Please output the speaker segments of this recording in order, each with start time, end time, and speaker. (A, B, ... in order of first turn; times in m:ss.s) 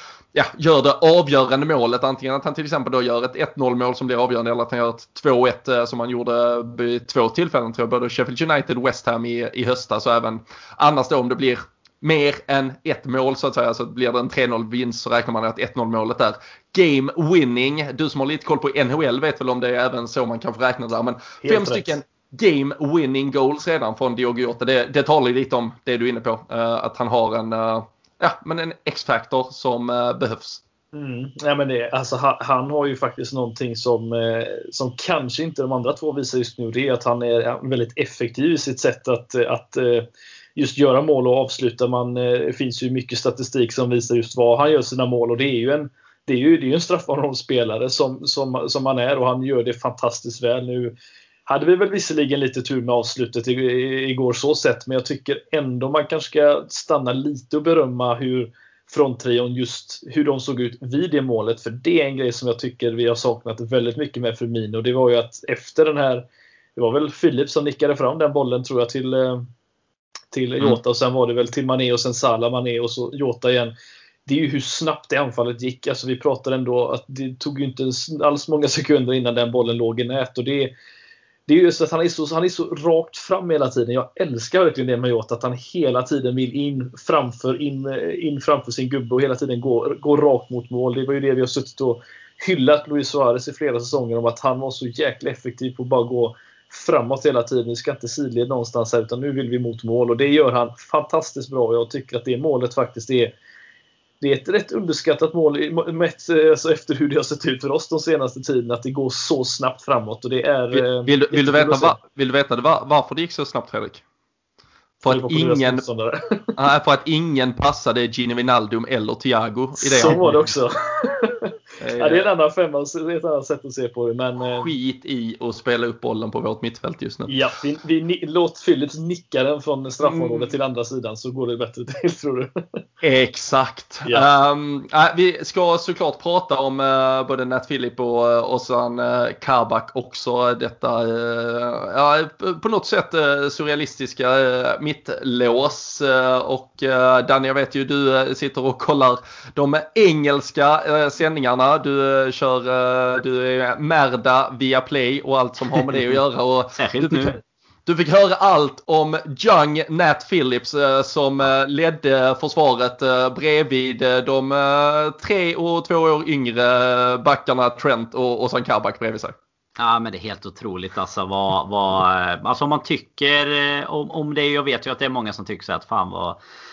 0:00.3-0:30.6 A
0:21.4-0:22.0 B
0:30.9-0:50.9 B
0:51.5-1:06.2 B
1:06.8-1:09.4 B
1:10.3-1:13.7 B
1:14.2-1:20.7 B
1:21.5-1:43.3 B
1:44.2-1:52.0 B
1:50.7-1:54.0 A
1:55.0-1:55.8 A
1:55.1-1:56.5 B
1:56.5-2:00.2 A
1:59.8-2:04.7 B
2:01.8-2:02.3 A
2:04.5-2:07.3 A
2:07.3-2:12.6 B
2:10.0-2:10.4 A
2:13.0-2:49.3 A
2:36.8-2:37.4 C
2:49.8-2:56.4 C